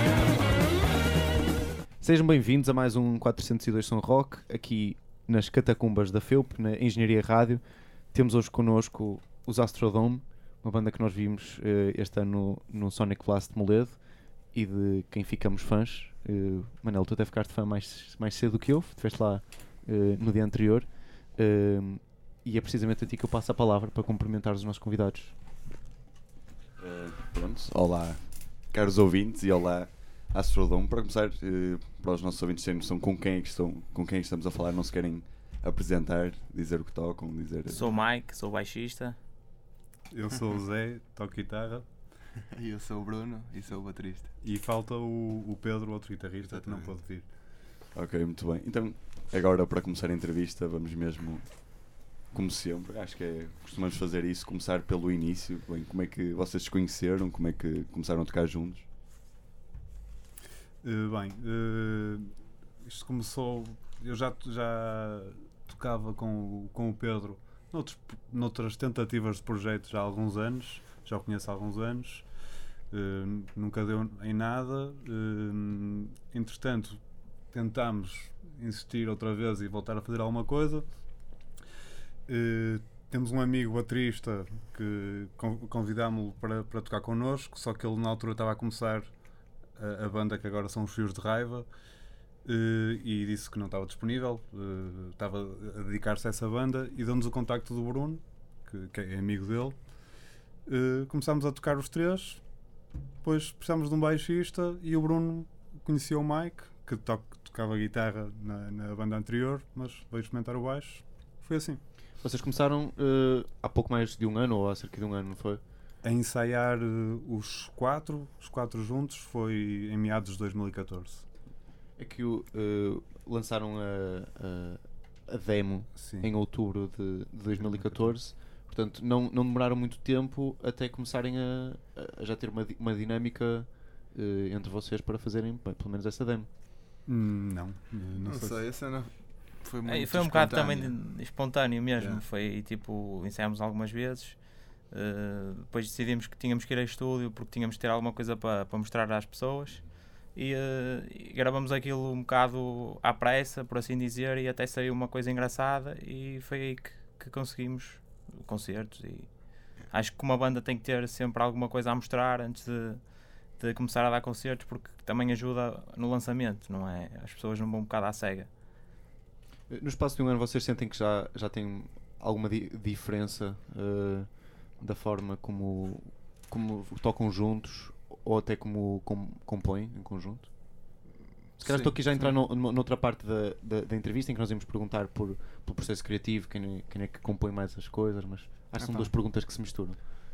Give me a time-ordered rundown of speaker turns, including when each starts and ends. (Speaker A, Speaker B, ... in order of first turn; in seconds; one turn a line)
Speaker A: 2.0-25.3
Speaker B: 26.8-37.9
Speaker C: 37.7-39.2
Speaker D: 40.1-41.9
Speaker E: 42.5-44.3
Speaker D: 44.4-47.3
Speaker E: 46.5-46.9
Speaker B: 47.9-58.9
Speaker D: 60.8-62.3
Speaker D: 62.8-72.2
Speaker D: 72.9-77.0
Speaker D: 77.5-80.9
Speaker D: 82.3-89.1
Speaker D: 89.8-91.7
Speaker D: 92.4-99.8
Speaker D: 100.7-102.4
Speaker D: 103.2-111.8
Speaker A: 112.2-115.6
Speaker D: 116.0-121.2
Speaker A: 122.0-136.5
Speaker D: 126.0-126.3
Speaker D: 127.6-128.2
Speaker D: 137.1-138.7
Speaker E: 138.2-141.2
Speaker C: 139.8-168.5
Speaker E: 142.0-142.2
Speaker A: 169.7-180.9
Speaker E: 181.6-182.4
Speaker A: 181.6-190.0
Speaker E: 188.8-189.1